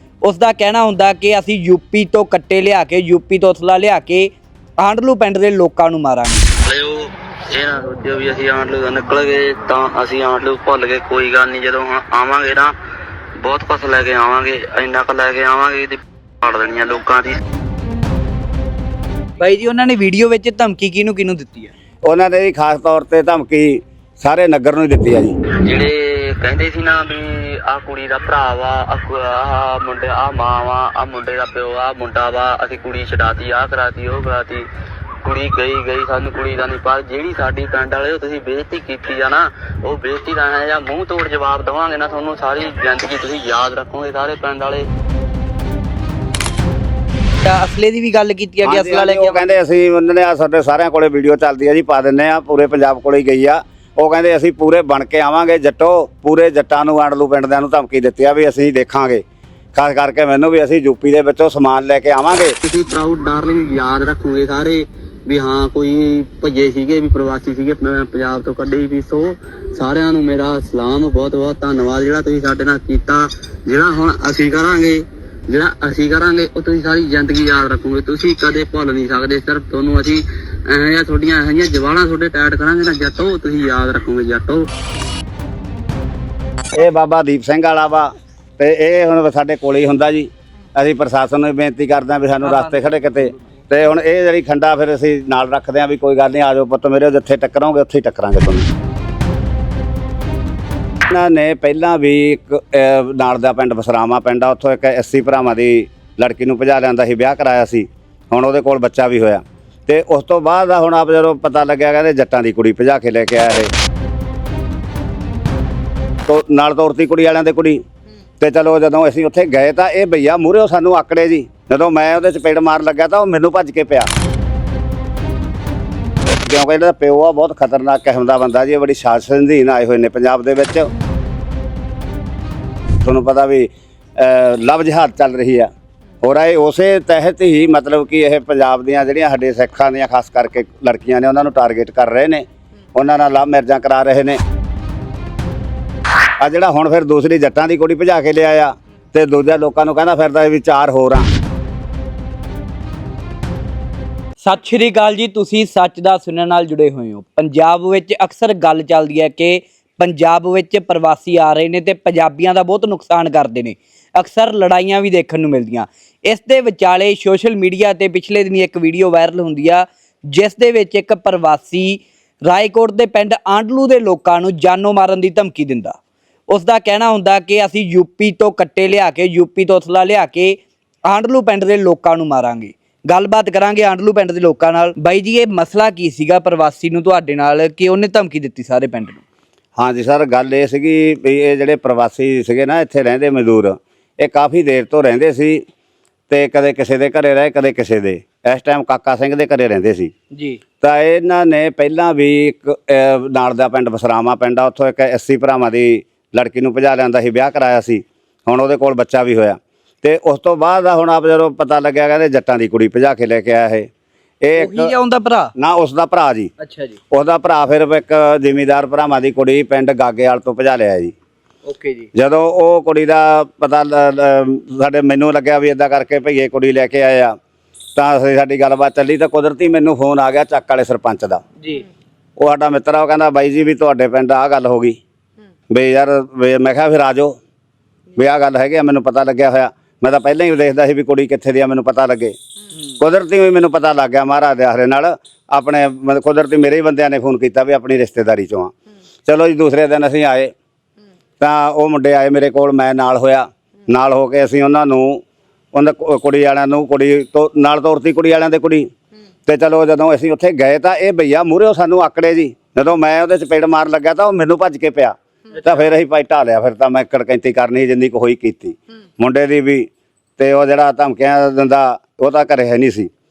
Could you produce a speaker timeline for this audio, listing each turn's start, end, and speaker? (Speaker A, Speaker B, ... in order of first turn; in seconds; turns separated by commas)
Speaker A: 0.2-6.5, Speaker B: 6.6-12.7, Speaker B: 13.4-17.4, Speaker A: 19.4-21.7, Speaker C: 22.1-25.4, Speaker B: 25.5-34.6, Speaker B: 35.2-44.9, Speaker A: 47.4-49.5, Speaker C: 48.6-62.5, Speaker B: 62.6-84.7, Speaker C: 86.7-98.7, Speaker A: 92.4-93.4, Speaker C: 101.0-113.7, Speaker C: 116.3-117.8, Speaker C: 118.4-124.1, Speaker C: 126.3-130.9, Speaker C: 133.0-135.7, Speaker C: 136.2-144.4, Speaker C: 146.4-151.3, Speaker A: 154.4-176.0, Speaker A: 176.5-189.2, Speaker C: 189.8-195.7, Speaker C: 196.3-200.1, Speaker A: 200.3-200.6, Speaker C: 200.8-213.9, Speaker C: 214.4-214.9, Speaker A: 214.6-215.5, Speaker C: 215.6-216.5, Speaker A: 216.6-217.0, Speaker C: 217.1-221.1, Speaker A: 221.7-222.1, Speaker C: 222.1-227.4, Speaker C: 227.9-231.4, Speaker A: 231.6-231.9, Speaker C: 232.4-235.0, Speaker C: 235.7-237.4, Speaker C: 238.2-242.4, Speaker C: 243.0-248.7, Speaker C: 249.3-250.5, Speaker C: 251.4-258.9, Speaker C: 259.5-273.1, Speaker A: 265.5-265.9